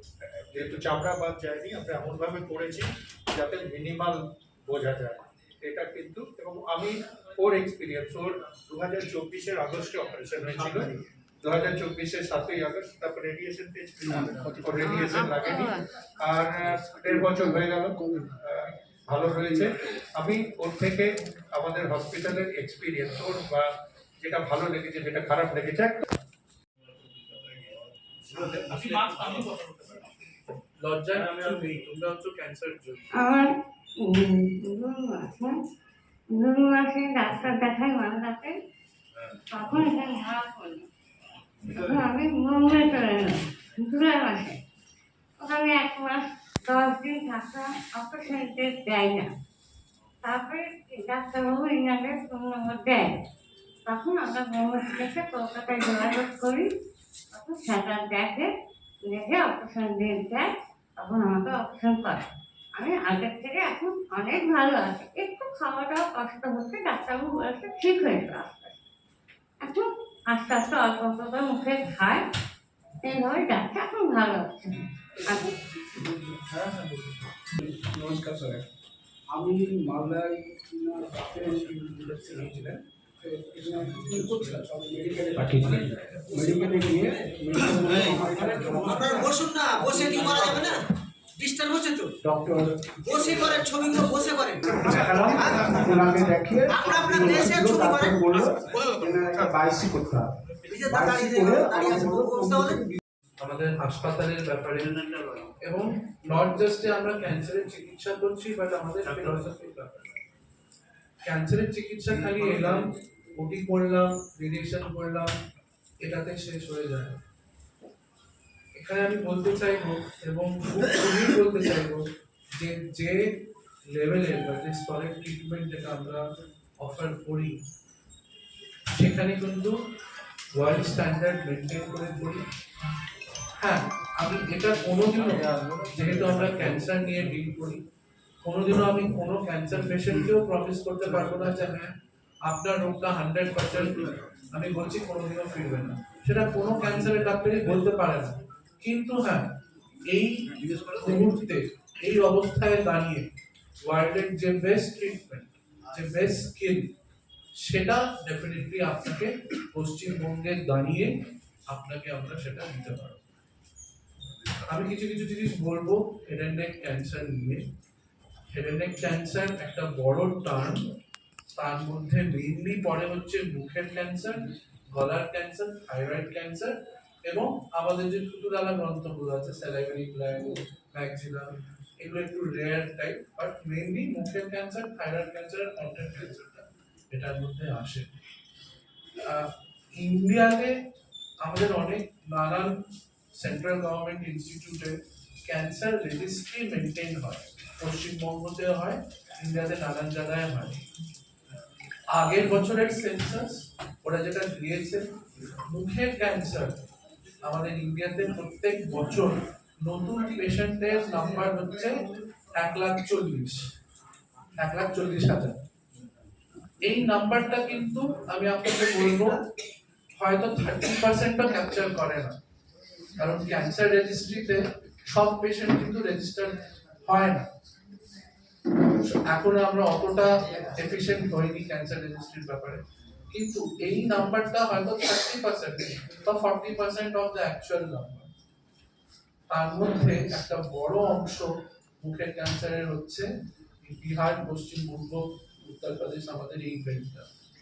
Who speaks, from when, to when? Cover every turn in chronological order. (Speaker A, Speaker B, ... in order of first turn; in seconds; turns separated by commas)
Speaker A: 0.5-23.7, Speaker A: 24.2-26.0, Speaker B: 28.3-30.1, Speaker B: 30.8-33.0, Speaker C: 33.1-33.5, Speaker C: 34.0-35.6, Speaker C: 36.3-38.5, Speaker C: 39.5-40.9, Speaker C: 41.7-44.6, Speaker C: 45.4-49.3, Speaker C: 50.2-53.1, Speaker C: 53.9-56.7, Speaker C: 57.3-58.5, Speaker C: 59.0-62.2, Speaker C: 62.8-68.8, Speaker C: 69.6-72.2, Speaker C: 73.0-75.5, Speaker D: 76.0-76.8, Speaker D: 77.6-78.6, Speaker D: 79.3-90.7, Speaker B: 83.9-84.5, Speaker B: 85.5-86.5, Speaker E: 87.9-88.2, Speaker B: 88.4-88.8, Speaker E: 88.9-90.8, Speaker E: 91.4-92.1, Speaker D: 92.2-93.7, Speaker E: 93.0-95.7, Speaker D: 94.6-102.9, Speaker E: 96.7-98.7, Speaker E: 100.7-102.8, Speaker B: 103.4-105.0, Speaker B: 105.6-110.0, Speaker A: 109.1-109.4, Speaker B: 111.2-115.3, Speaker B: 116.0-117.2, Speaker B: 118.8-122.0, Speaker B: 122.6-123.2, Speaker B: 123.9-126.2, Speaker B: 126.8-127.5, Speaker B: 129.0-129.8, Speaker B: 130.6-132.4, Speaker B: 133.6-137.8, Speaker B: 138.4-141.9, Speaker B: 142.4-149.5, Speaker B: 150.1-153.2, Speaker B: 153.8-156.9, Speaker B: 157.6-161.1, Speaker B: 161.7-163.2, Speaker B: 164.7-167.6, Speaker B: 168.5-170.8, Speaker B: 171.6-188.1, Speaker B: 189.3-190.8, Speaker B: 191.4-192.8, Speaker B: 193.3-200.8, Speaker B: 202.1-205.0, Speaker B: 205.7-206.8, Speaker B: 207.4-213.6, Speaker B: 214.6-215.6, Speaker B: 216.8-219.4, Speaker B: 220.2-222.4, Speaker B: 223.2-227.5, Speaker B: 229.3-238.3, Speaker B: 239.5-243.3, Speaker B: 243.8-247.3